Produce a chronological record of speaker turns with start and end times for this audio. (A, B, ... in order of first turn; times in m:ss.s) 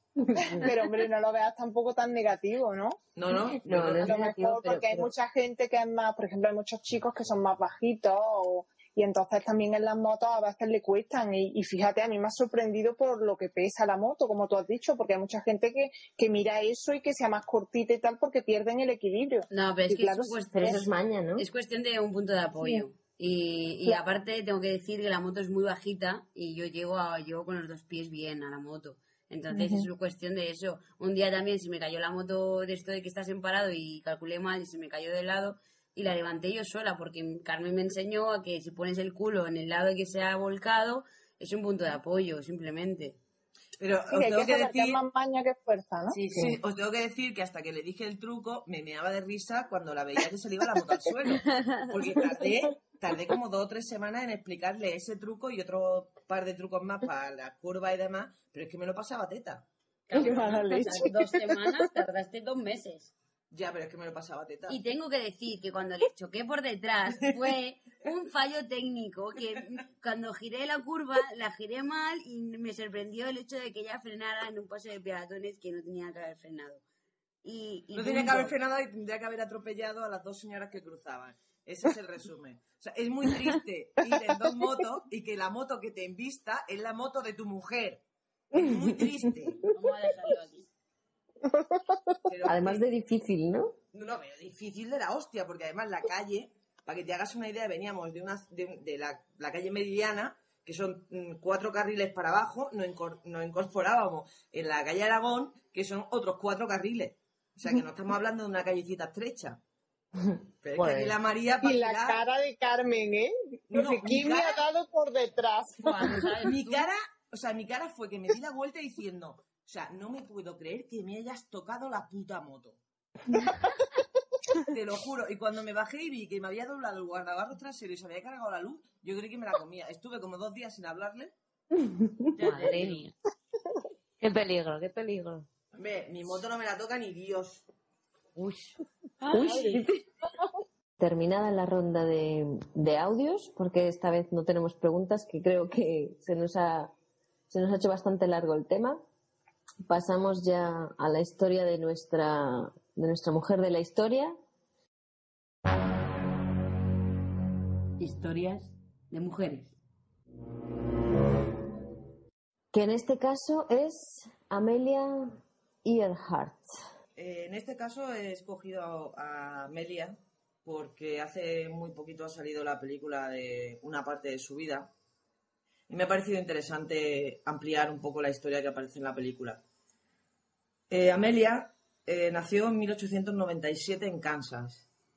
0:00.2-0:00.8 A
0:00.5-0:03.0 B
0:03.2-0:04.1 C
0:03.6-0:05.1 A
0:03.9-0:20.8 B
0:19.5-0:43.2 D
0:20.5-0:21.4 A
0:29.5-0:29.9 B
0:43.8-0:45.0 C
0:44.1-0:46.5 B
0:46.1-0:46.4 D
0:46.3-1:00.8 C
1:00.1-1:03.1 D
1:00.1-1:01.3 B
1:03.5-1:04.8 C
1:04.7-1:16.8 D
1:17.4-1:18.5 D
1:18.0-1:28.0 C
1:28.5-1:29.6 C
1:29.7-1:30.7 D
1:32.3-1:32.8 C
1:32.4-1:33.8 A
1:33.9-1:49.6 C
1:50.6-1:52.2 C
1:50.8-1:51.1 E
1:51.6-1:56.3 B
1:53.7-1:54.6 C
1:55.8-1:56.9 D
1:55.9-2:02.8 C
2:04.6-2:11.3 C
2:12.4-2:13.0 D
2:12.4-2:13.1 E
2:14.2-2:15.5 E
2:15.7-2:17.6 C
2:18.4-2:18.8 E
2:19.3-2:20.0 A
2:19.3-2:19.8 D
2:21.0-2:26.9 A
2:27.5-2:29.0 A
2:29.8-2:34.3 A
2:38.0-2:39.7 D
2:42.7-2:46.7 A
2:47.2-2:54.9 C
2:55.9-2:59.6 C
3:00.9-3:04.8 C